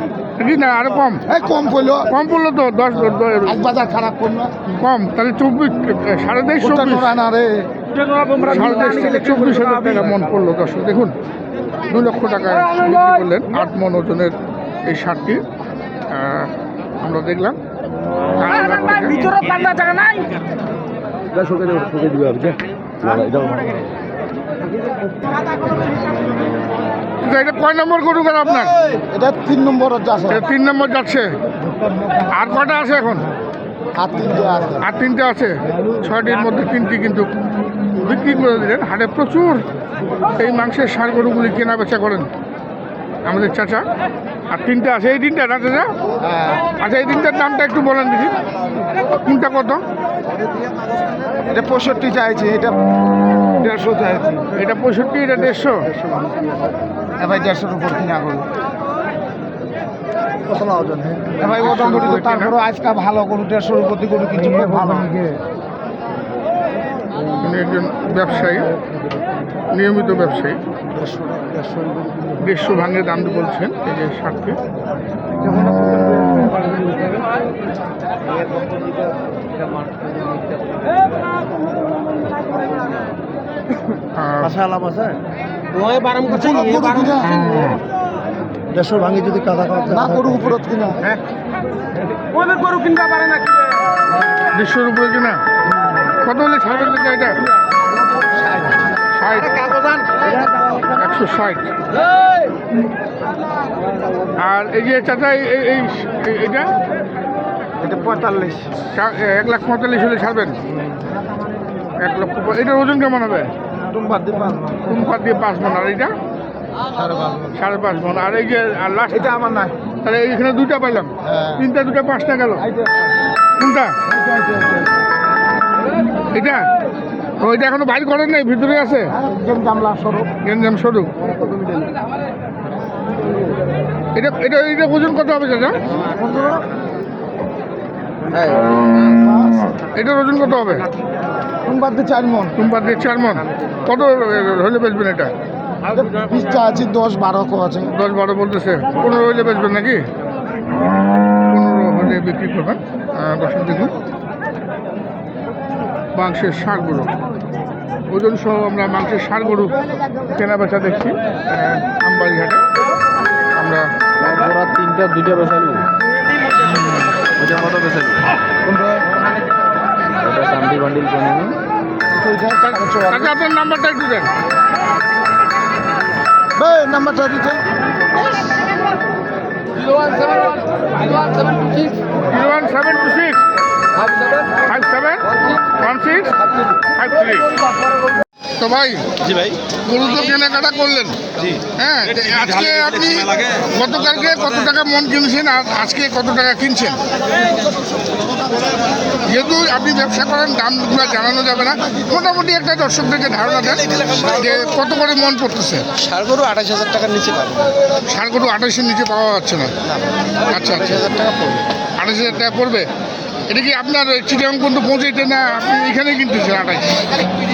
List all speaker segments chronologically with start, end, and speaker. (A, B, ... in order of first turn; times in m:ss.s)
0:00.4-0:01.3 A
0:01.3-0:02.1 B
0:02.1-0:03.7 A
0:03.3-0:04.5 B
0:04.6-0:07.2 A
0:06.6-0:07.7 B
0:08.0-0:09.0 C
0:08.4-0:11.1 A
0:11.8-0:15.4 A
0:16.1-0:17.6 A
0:18.4-0:19.4 A
0:19.3-0:20.3 C
0:21.3-0:23.8 C
0:27.2-0:28.8 A
0:29.1-0:30.4 B
0:30.3-0:31.4 A
0:31.6-0:32.2 B
0:32.2-0:33.3 A
0:33.9-0:34.8 B
0:34.8-0:37.3 A
0:38.0-0:39.6 A
0:40.3-0:42.3 A
0:43.2-0:43.8 A
0:44.5-0:45.9 A
0:46.2-0:46.6 B
0:46.7-0:48.4 A
0:49.0-0:49.8 A
0:51.5-0:52.9 B
0:53.5-0:54.5 B
0:54.5-0:55.8 A
0:57.2-0:58.5 B
1:00.5-1:01.4 C
1:01.4-1:05.3 B
1:01.5-1:02.5 A
1:07.4-1:08.8 A
1:09.7-1:10.6 A
1:11.4-1:11.9 B
1:12.4-1:14.6 A
1:15.6-1:16.7 B
1:24.1-1:24.7 A
1:24.7-1:25.2 C
1:25.8-1:26.3 C
1:26.1-1:27.7 B
1:28.7-1:30.0 C
1:29.8-1:31.1 B
1:32.3-1:33.3 C
1:34.5-1:35.4 A
1:36.2-1:37.4 A
1:39.2-1:39.6 A
1:40.9-1:41.7 A
1:44.4-1:46.7 A
1:47.8-1:48.7 B
1:48.9-1:50.6 A
1:52.0-1:53.5 A
1:53.7-1:55.0 B
1:54.9-1:56.1 A
1:56.9-1:57.5 B
1:57.5-1:59.3 A
1:59.1-1:59.8 B
2:00.0-2:02.6 A
2:01.2-2:01.6 B
2:02.6-2:02.9 B
2:03.6-2:04.0 A
2:04.1-2:04.9 B
2:06.3-2:06.7 A
2:07.4-2:09.1 A
2:09.1-2:10.3 B
2:10.4-2:11.1 A
2:14.1-2:15.8 A
2:16.3-2:16.6 B
2:19.9-2:20.9 A
2:21.6-2:22.6 B
2:22.6-2:25.3 A
2:25.9-2:27.9 B
2:27.9-2:30.1 A
2:31.5-2:33.9 A
2:36.1-2:37.2 A
2:38.1-2:42.6 A
2:43.6-2:43.9 A
2:44.2-2:45.8 C
2:47.4-2:48.1 C
2:48.6-2:49.0 B
2:50.2-2:51.6 C
2:52.2-2:53.3 B
2:52.7-2:54.3 A
2:56.6-2:57.6 B
3:00.0-3:00.4 C
3:01.2-3:01.9 C
3:02.2-3:03.4 A
3:04.5-3:07.5 A
3:08.6-3:09.1 A
3:09.3-3:09.5 C
3:09.7-3:17.0 A
3:19.2-3:26.0 A
3:26.0-3:27.7 C
3:28.0-3:29.7 A
3:30.4-3:31.2 A
3:31.1-3:31.6 C
3:32.0-3:32.9 A
3:33.5-3:37.3 A